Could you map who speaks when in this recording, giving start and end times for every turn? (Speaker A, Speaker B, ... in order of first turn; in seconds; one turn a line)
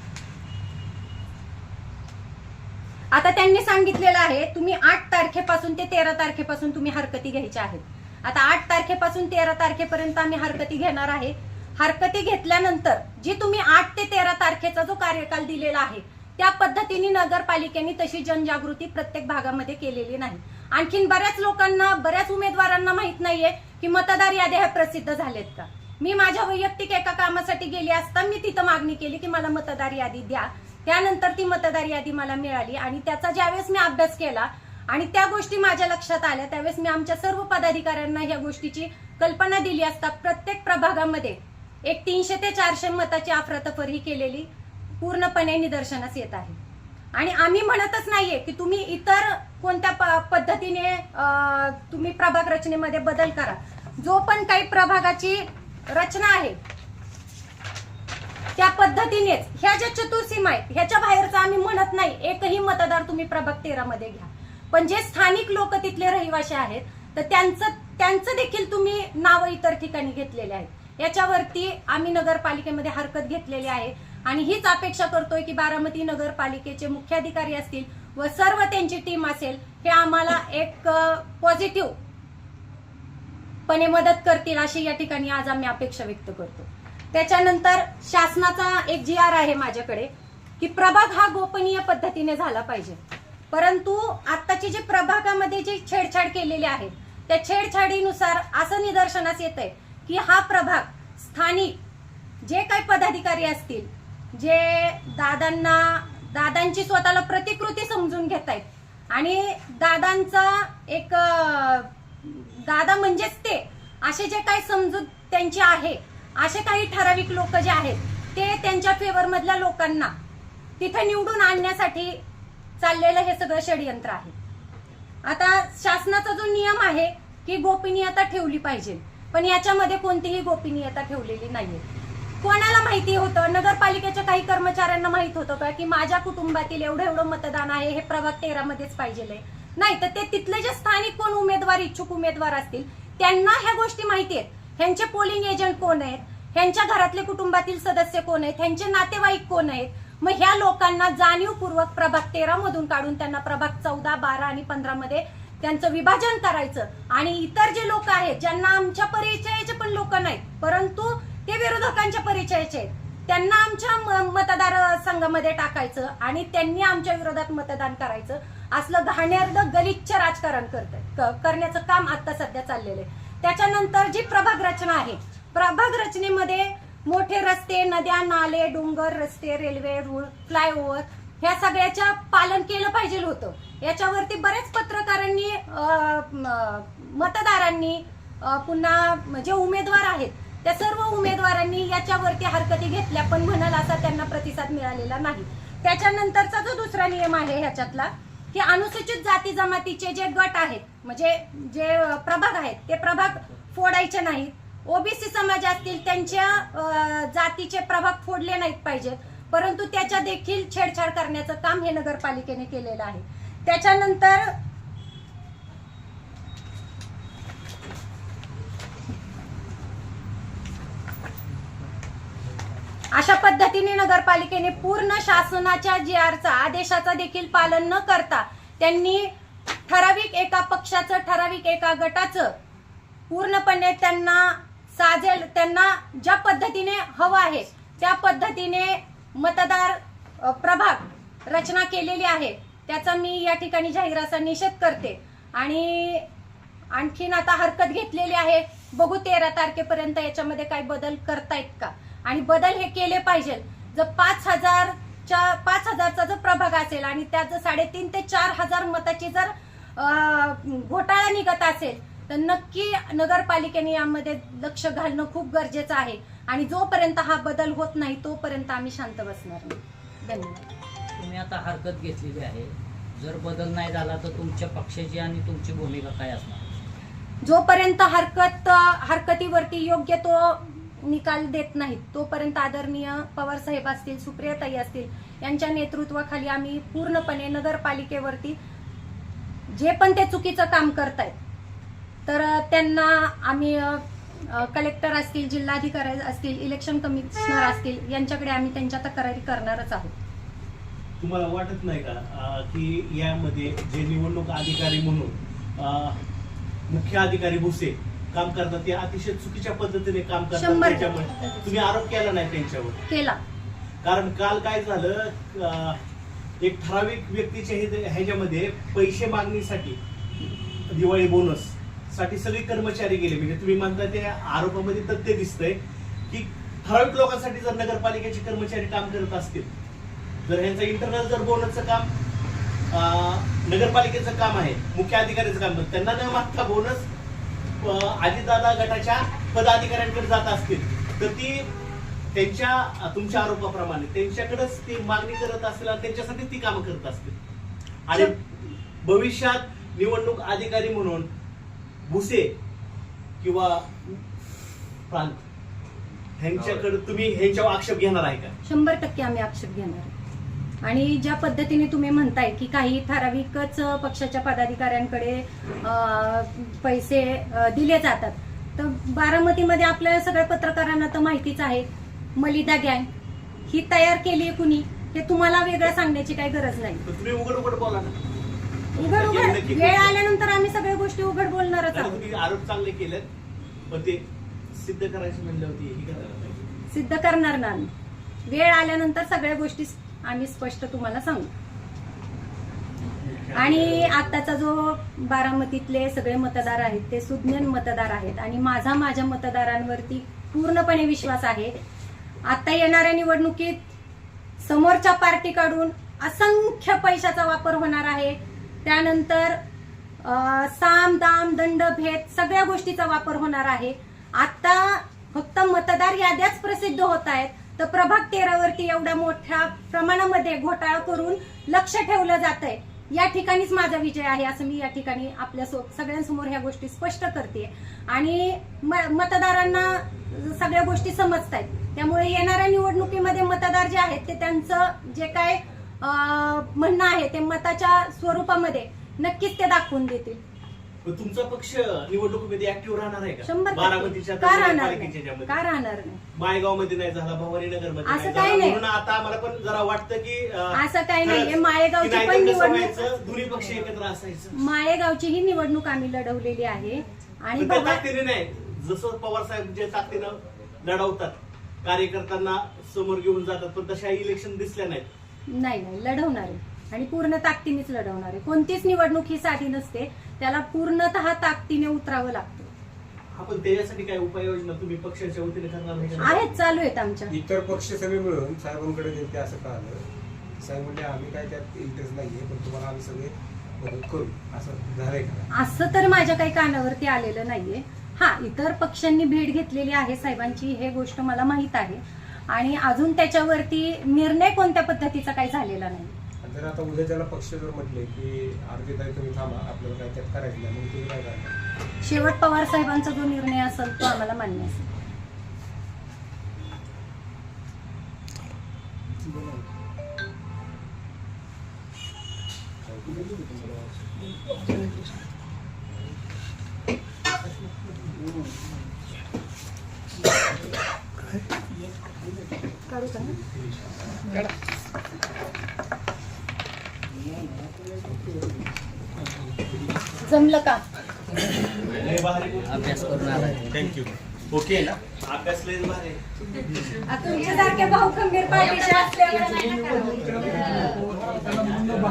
Speaker A: 3.1-44.5
Speaker A: 45.0-46.6
Speaker A: 47.1-56.6
Speaker A: 58.6-82.0
Speaker A: 83.7-93.0
Speaker A: 93.5-101.8
Speaker A: 102.4-120.1
Speaker A: 120.8-122.2
Speaker A: 122.8-124.3
Speaker A: 125.2-131.8
Speaker A: 132.4-214.6
Speaker A: 223.1-229.3
Speaker A: 229.9-232.6
Speaker A: 233.3-246.2
Speaker A: 246.9-270.7
Speaker B: 271.1-276.8
Speaker A: 277.4-288.6
Speaker A: 289.7-291.4
Speaker A: 292.3-300.1
Speaker C: 301.2-306.2
Speaker C: 306.9-313.0
Speaker A: 310.5-311.2
Speaker A: 313.1-313.4
Speaker C: 314.0-316.0
Speaker C: 316.6-320.0
Speaker C: 320.9-325.8
Speaker C: 326.3-329.7
Speaker C: 330.5-332.1
Speaker C: 332.9-337.1
Speaker C: 337.8-341.7
Speaker C: 342.3-347.4
Speaker C: 348.1-348.5
Speaker C: 349.0-351.3
Speaker C: 352.1-352.5
Speaker C: 353.4-354.2
Speaker C: 355.1-355.4
Speaker C: 356.4-358.5
Speaker A: 358.6-360.1
Speaker A: 360.8-373.1
Speaker A: 373.7-377.0
Speaker C: 377.1-378.1
Speaker C: 378.9-380.1
Speaker A: 379.0-382.3
Speaker C: 381.9-383.3
Speaker C: 383.9-386.7
Speaker A: 386.9-387.9
Speaker A: 388.5-391.5
Speaker C: 393.1-394.3
Speaker A: 393.5-401.7
Speaker A: 402.5-403.9
Speaker A: 404.6-409.6
Speaker A: 410.2-440.4
Speaker C: 441.0-445.6
Speaker A: 443.4-446.2
Speaker C: 446.3-454.6
Speaker A: 448.0-448.8
Speaker A: 450.7-453.2
Speaker A: 454.5-458.1
Speaker C: 457.6-465.1
Speaker A: 465.5-472.7
Speaker C: 473.3-476.4
Speaker A: 476.2-477.3
Speaker D: 477.3-480.1
Speaker D: 480.6-485.5
Speaker A: 485.5-496.1
Speaker D: 496.4-501.5
Speaker A: 502.0-504.9
Speaker D: 512.9-513.7
Speaker A: 522.9-523.4
Speaker A: 530.2-530.9
Speaker C: 532.0-533.9
Speaker B: 532.6-533.9
Speaker D: 533.7-534.0
Speaker C: 534.5-536.2
Speaker A: 537.1-541.0